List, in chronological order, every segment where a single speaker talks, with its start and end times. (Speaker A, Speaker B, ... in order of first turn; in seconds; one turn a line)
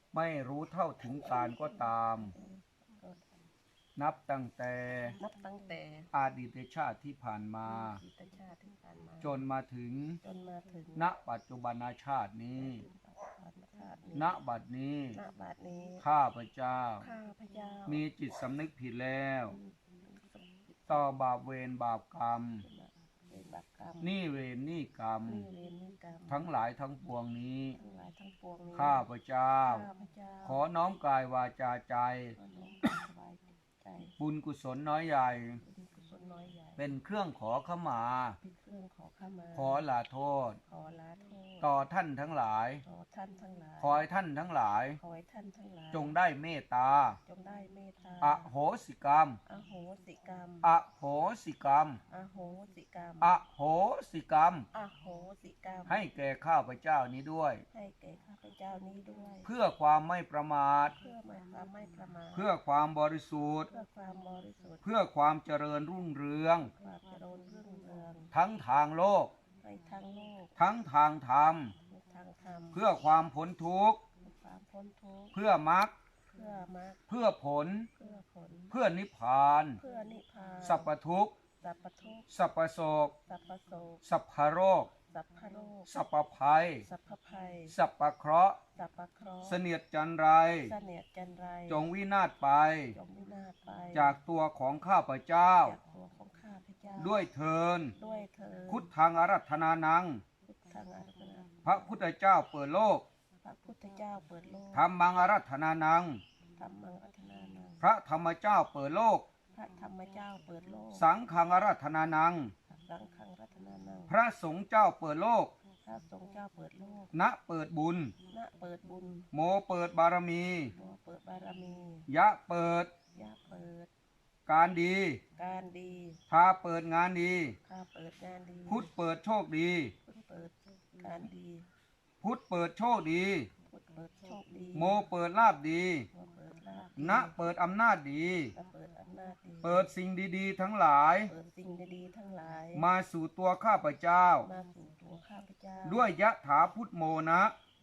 Speaker A: 0.1-2.4
Speaker B: 1.0-3.3
Speaker A: 4.0-5.2
Speaker B: 5.2-6.1
Speaker A: 6.1-8.0
Speaker B: 7.7-9.4
Speaker A: 9.2-10.2
Speaker B: 10.2-11.1
Speaker A: 10.9-12.8
Speaker B: 12.6-14.4
Speaker A: 14.1-15.2
Speaker B: 15.1-16.1
Speaker A: 16.0-17.1
Speaker B: 17.0-18.0
Speaker A: 17.9-19.6
Speaker B: 19.5-21.1
Speaker A: 20.9-22.7
Speaker B: 22.6-24.1
Speaker A: 24.0-25.5
Speaker B: 25.2-26.5
Speaker A: 26.3-27.8
Speaker B: 27.8-29.1
Speaker A: 28.7-29.9
Speaker B: 29.6-30.6
Speaker A: 30.4-32.4
Speaker B: 32.4-34.2
Speaker A: 34.2-35.6
Speaker B: 35.6-36.9
Speaker A: 36.8-38.4
Speaker B: 38.4-39.9
Speaker A: 39.5-40.6
Speaker B: 40.7-41.7
Speaker A: 41.6-42.8
Speaker B: 42.8-44.1
Speaker A: 43.8-45.0
Speaker B: 45.0-46.2
Speaker A: 45.9-47.2
Speaker B: 47.2-48.5
Speaker A: 48.2-49.4
Speaker B: 49.5-50.7
Speaker A: 50.6-52.0
Speaker B: 52.1-53.4
Speaker A: 53.2-54.7
Speaker B: 54.7-56.1
Speaker A: 55.9-57.6
Speaker B: 57.7-59.5
Speaker A: 59.4-61.0
Speaker B: 61.0-62.5
Speaker A: 62.3-63.7
Speaker B: 63.7-64.8
Speaker A: 64.8-66.7
Speaker B: 66.7-68.3
Speaker A: 68.3-69.3
Speaker B: 69.6-70.5
Speaker A: 70.6-71.7
Speaker B: 71.8-72.9
Speaker A: 72.7-74.1
Speaker B: 74.2-75.4
Speaker A: 75.3-75.9
Speaker B: 76.3-77.0
Speaker A: 77.1-77.9
Speaker B: 78.0-78.8
Speaker A: 78.7-79.8
Speaker B: 79.8-80.9
Speaker A: 80.6-81.4
Speaker B: 81.6-82.3
Speaker A: 82.3-83.2
Speaker B: 83.2-84.0
Speaker A: 84.0-84.9
Speaker B: 85.1-85.9
Speaker A: 85.9-86.9
Speaker B: 86.8-87.8
Speaker A: 87.7-88.6
Speaker B: 88.8-89.6
Speaker A: 89.4-90.7
Speaker B: 90.6-91.9
Speaker A: 91.7-93.0
Speaker B: 92.9-94.2
Speaker A: 93.9-95.8
Speaker B: 95.6-97.3
Speaker A: 97.0-98.0
Speaker B: 98.0-98.9
Speaker A: 98.7-100.2
Speaker B: 100.5-101.9
Speaker A: 101.6-103.1
Speaker B: 103.4-104.9
Speaker A: 104.7-106.2
Speaker B: 106.6-107.8
Speaker A: 107.8-109.3
Speaker B: 109.5-111.1
Speaker A: 110.9-112.5
Speaker B: 112.7-114.1
Speaker A: 114.1-115.5
Speaker B: 115.8-117.2
Speaker A: 117.1-118.2
Speaker B: 118.3-119.3
Speaker A: 119.3-120.8
Speaker B: 120.7-122.1
Speaker A: 122.1-122.9
Speaker B: 123.1-123.9
Speaker A: 124.5-125.2
Speaker B: 125.4-126.2
Speaker A: 126.3-127.6
Speaker B: 127.7-128.9
Speaker A: 128.7-129.9
Speaker B: 130.1-131.7
Speaker A: 132.2-133.5
Speaker B: 133.7-135.0
Speaker A: 134.7-136.1
Speaker B: 136.1-137.4
Speaker A: 137.0-138.6
Speaker B: 138.5-139.9
Speaker A: 139.6-141.3
Speaker B: 141.3-142.9
Speaker A: 142.7-144.5
Speaker B: 144.4-146.2
Speaker A: 145.8-147.5